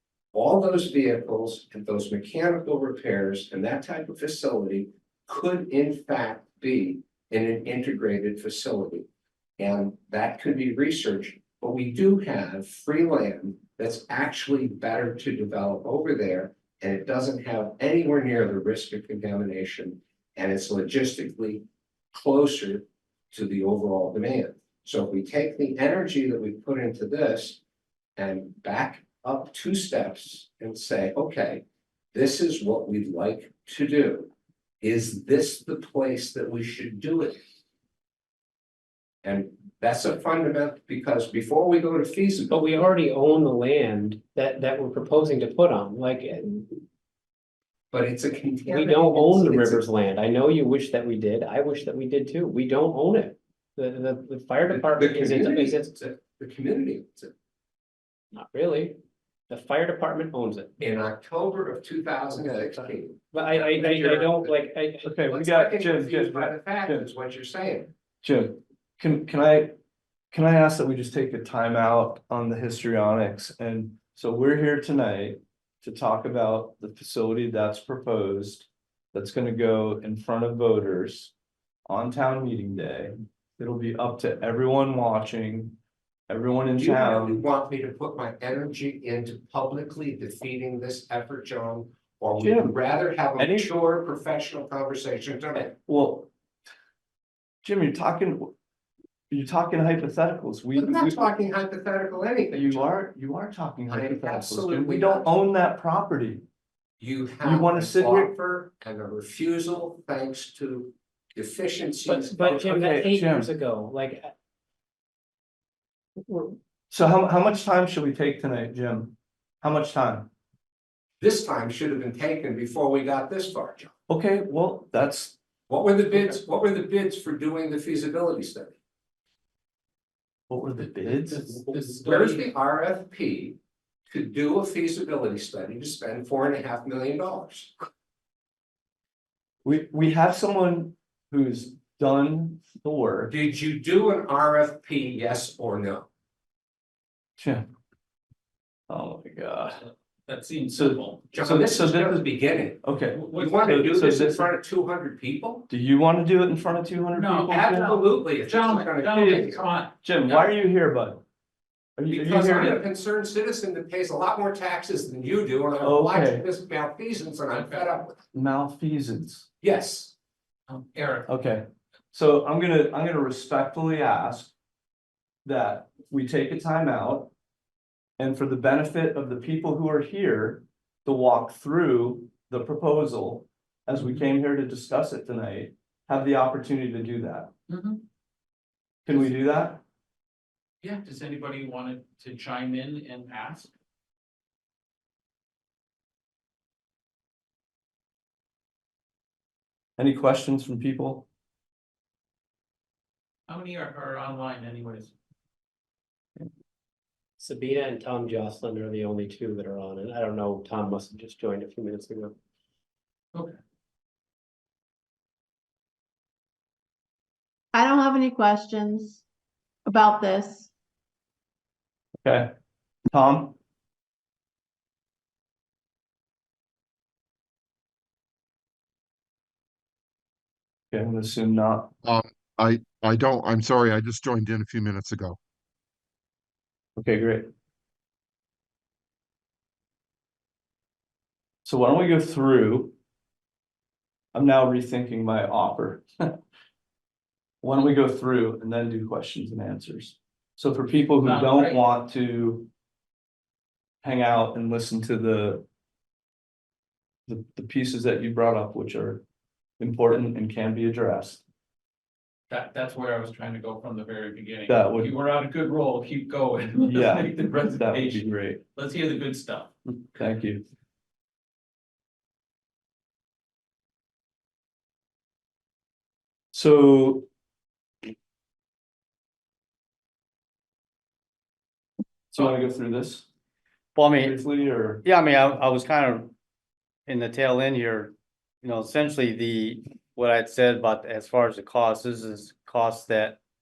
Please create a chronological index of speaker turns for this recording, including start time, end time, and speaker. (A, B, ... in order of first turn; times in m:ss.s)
0:00.3-0:09.1 A
0:09.6-0:27.6 A
0:28.2-0:34.3 A
0:34.8-0:37.4 A
0:39.2-0:42.6 A
0:42.5-0:46.8 B
0:47.9-0:49.8 A
0:48.7-0:55.9 B
0:54.7-0:57.3 A
0:58.3-0:59.0 B
0:59.5-1:00.8 B
1:00.8-1:04.6 A
1:02.4-1:05.1 B
1:05.0-1:07.1 C
1:05.3-1:07.9 A
1:08.2-1:09.8 C
1:10.3-1:21.3 C
1:21.9-1:27.4 C
1:26.8-1:35.8 A
1:32.4-1:32.8 C
1:33.4-1:33.7 C
1:35.9-1:36.3 C
1:37.6-1:38.5 C
1:39.3-1:41.2 C
1:40.8-1:42.9 A
1:42.5-1:46.4 C
1:43.9-1:45.3 A
1:47.0-1:52.8 A
1:47.4-1:48.3 C
1:52.0-1:54.3 B
1:52.5-1:53.5 C
1:56.2-1:56.6 B
1:56.9-2:00.3 C
2:01.2-2:03.9 A
2:04.1-2:05.4 C
2:05.7-2:08.7 A
2:10.5-2:11.6 C
2:11.0-2:12.5 D
2:11.7-2:17.7 A
2:19.6-2:23.3 C
2:23.3-2:26.1 A
2:27.4-2:27.7 C
2:28.9-2:29.8 C
2:29.8-2:31.2 D
2:30.7-2:34.5 C
2:31.3-2:35.7 A
2:33.2-2:33.6 D
2:35.7-2:38.0 C
2:37.1-2:40.5 D
2:37.5-2:39.6 A
2:40.0-2:41.2 C
2:42.0-2:42.8 C
2:42.1-2:48.2 A
2:45.8-2:46.5 C
2:48.3-2:49.5 C
2:49.6-2:50.1 A
2:50.7-2:51.3 D
2:51.3-2:54.5 C
2:55.4-2:57.3 C
2:58.2-3:07.5 C
3:07.7-3:08.0 D
3:09.1-3:09.8 C
3:10.8-3:13.7 D
3:20.0-3:21.3 C
3:23.5-3:25.1 D
3:27.4-3:32.3 B
3:37.7-3:39.2 E
3:39.8-3:40.7 E
3:42.2-3:42.5 C
3:43.1-3:43.6 C
3:50.9-3:51.9 C
3:52.0-3:55.4 F
3:57.0-3:57.5 C
4:01.6-4:02.9 C
4:04.3-4:06.4 C
4:07.6-4:12.7 C
4:11.2-4:11.8 D
4:14.0-4:15.7 C
4:17.3-4:19.2 C
4:19.8-4:21.4 C
4:22.5-4:29.7 D
4:24.7-4:25.1 C
4:26.8-4:28.6 C
4:29.9-4:30.6 C
4:36.5-4:37.3 C
4:42.3-4:43.3 C
4:44.0-4:44.4 G
4:44.1-4:45.0 C
4:45.0-4:46.3 G
4:47.1-4:53.4 G